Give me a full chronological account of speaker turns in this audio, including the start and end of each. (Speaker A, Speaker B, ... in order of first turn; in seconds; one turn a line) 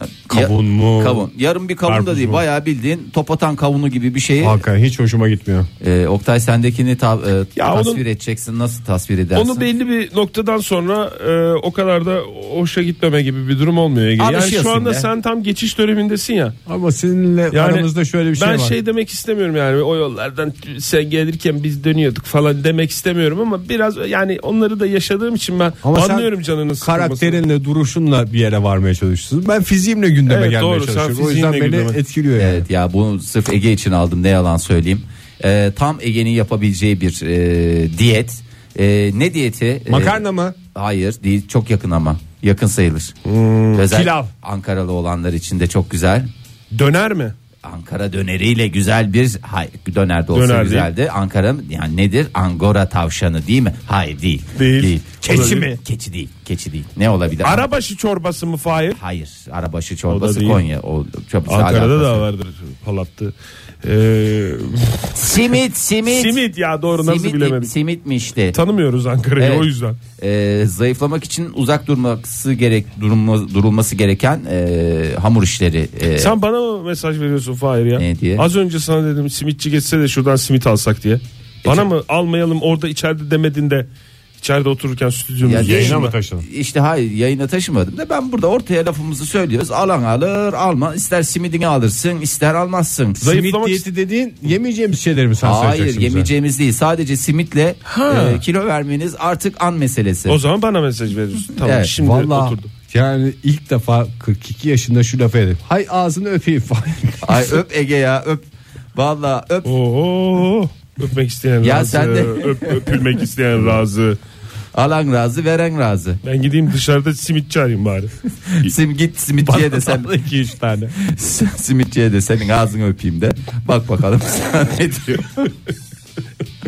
Speaker A: 0.3-4.6
Speaker B: 0.3-1.3
Speaker B: 1.9-2.4
Speaker B: 4.4-5.7
Speaker A: 5.8-9.7
Speaker C: 7.5-8.0
Speaker C: 9.3-16.6
Speaker A: 14.2-15.1
Speaker B: 16.6-18.8
Speaker C: 17.5-27.4
Speaker B: 25.8-26.3
Speaker B: 26.8-32.6
Speaker C: 30.3-32.0
Speaker A: 32.4-40.2
Speaker B: 39.9-40.6
Speaker A: 40.7-43.1
Speaker C: 43.2-43.8
Speaker A: 43.7-46.3
Speaker B: 43.8-44.3
Speaker C: 46.7-47.3
Speaker A: 47.6-57.7
Speaker C: 50.3-50.9
Speaker C: 54.5-55.7
Speaker B: 55.2-55.8
Speaker C: 57.4-59.0
Speaker A: 58.9-62.2
Speaker C: 60.1-60.6
Speaker C: 61.5-65.5
Speaker A: 65.2-66.4
Speaker C: 66.0-67.7
Speaker A: 66.9-68.6
Speaker C: 68.5-70.0
Speaker A: 69.4-76.3
Speaker C: 76.2-83.9
Speaker A: 78.0-78.5
Speaker C: 84.4-86.1
Speaker A: 85.4-93.3
Speaker B: 85.6-86.4
Speaker C: 93.2-93.9
Speaker B: 93.2-96.3
Speaker A: 95.4-100.4
Speaker C: 97.9-98.4
Speaker C: 100.3-102.7
Speaker A: 101.6-101.9
Speaker B: 102.0-107.6
Speaker A: 107.2-109.7
Speaker C: 109.6-114.2
Speaker A: 111.6-113.0
Speaker A: 114.7-116.2
Speaker C: 116.2-118.1
Speaker A: 118.5-120.2
Speaker B: 119.5-121.0
Speaker A: 120.9-125.5